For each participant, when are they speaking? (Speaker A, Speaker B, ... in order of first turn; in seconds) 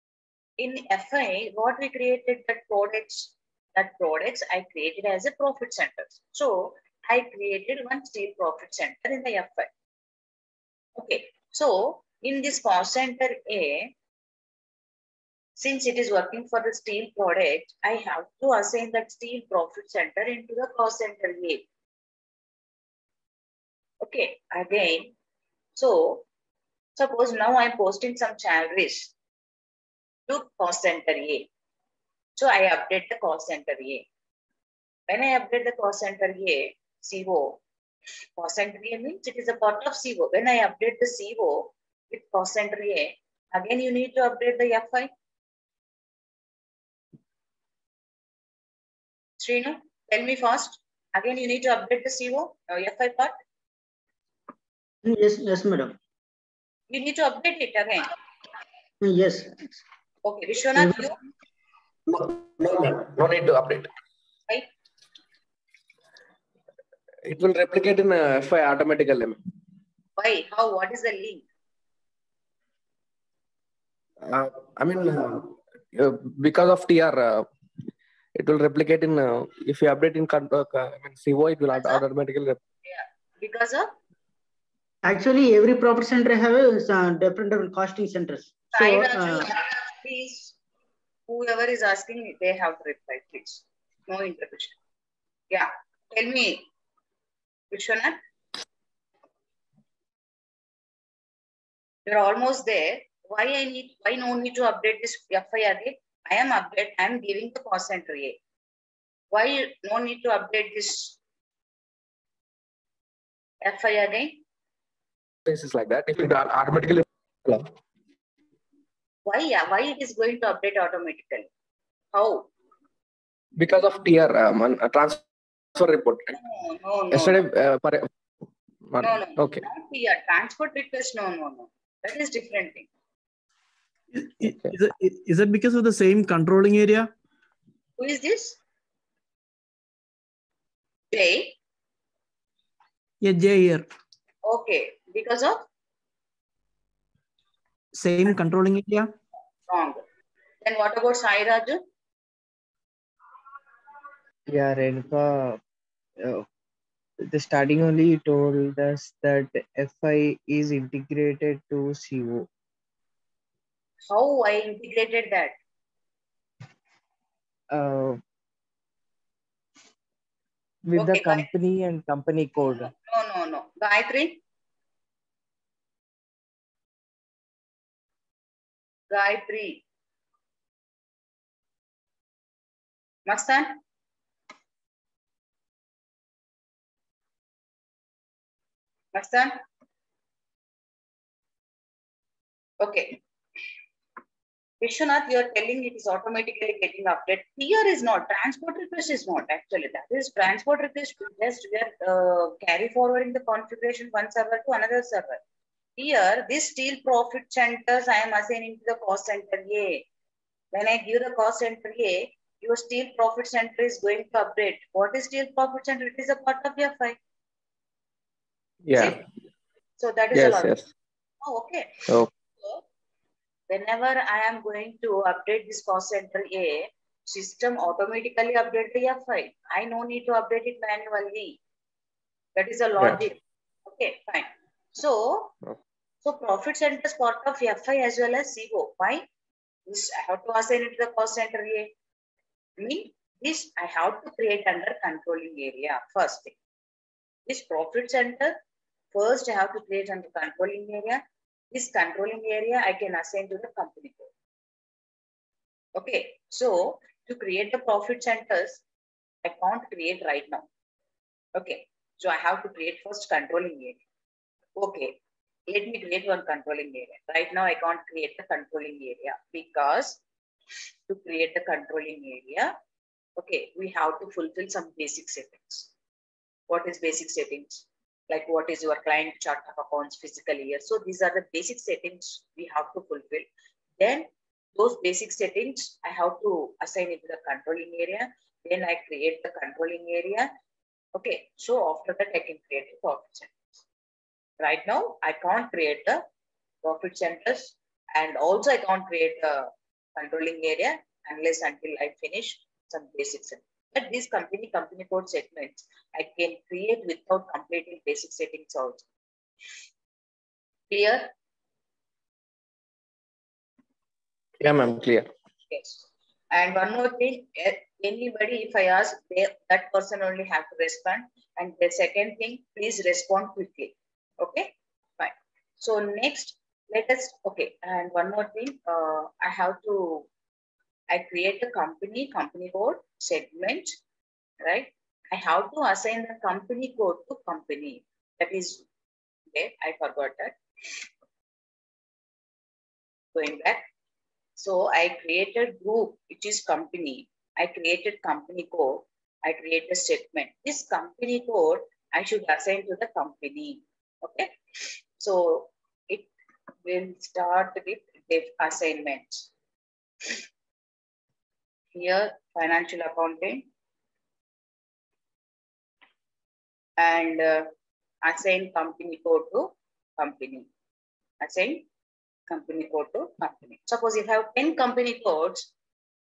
Speaker A: 0.6-9.7, 11.0-13.9, 15.6-21.6, 24.0-25.1, 25.8-26.2, 26.9-29.1, 30.3-31.5, 32.4-34.0, 35.1-37.6, 38.4-45.1, 49.4-53.4, 56.9-58.1, 60.2-61.2, 70.2-71.4, 81.7-82.0, 82.9-83.9, 88.7-90.5, 91.3-94.8, 95.5-96.7, 97.7-98.2, 102.1-108.4, 109.3-111.2, 113.6-114.4, 119.3-121.5, 122.1-122.5, 126.3-127.4, 129.0-132.9, 138.0-138.6, 141.1-141.6, 144.4-145.6, 149.7-150.1, 150.6-151.8, 164.1-165.6, 170.9-171.5, 172.6-174.4, 179.1-179.8, 183.3-183.8, 189.1-189.6, 192.8-193.2, 194.8-205.4, 206.0-210.1, 210.7-217.2, 220.0-220.8, 221.4-222.0, 223.7-231.6, 232.6-235.6, 236.2-239.2, 239.9-241.9, 242.8-246.6, 247.5-248.6, 249.1-254.3, 255.9-258.8, 259.4-260.7, 261.6-264.0, 264.8-265.1, 265.7-270.2, 271.1-272.7, 273.4-275.9, 276.7-283.5, 284.0-290.5, 291.1-293.8, 294.6-296.2, 296.8-309.0, 310.9-311.3, 315.7-330.3, 331.1-334.0, 334.6-338.8, 339.5-340.6, 343.3-343.9, 344.6-354.5, 355.2-356.3, 356.9-359.5, 361.9-363.7, 367.0-367.7, 368.2-370.7, 371.4-371.9, 372.5-375.7
Speaker B: 55.0-56.0, 59.0-59.8, 60.8-61.1, 85.0-89.5
Speaker C: 62.1-63.9, 67.2-69.4, 74.2-77.5, 78.4-82.6, 115.5-117.7, 123.6-125.2, 125.8-126.4, 127.1-128.1, 128.9-129.7, 218.8-219.2, 220.3-220.8, 314.6-315.3
Speaker D: 134.1-137.1, 143.2-143.9, 147.9-149.1
Speaker E: 154.5-155.6, 156.2-156.5, 157.2-162.5, 167.7-168.2, 170.8-172.9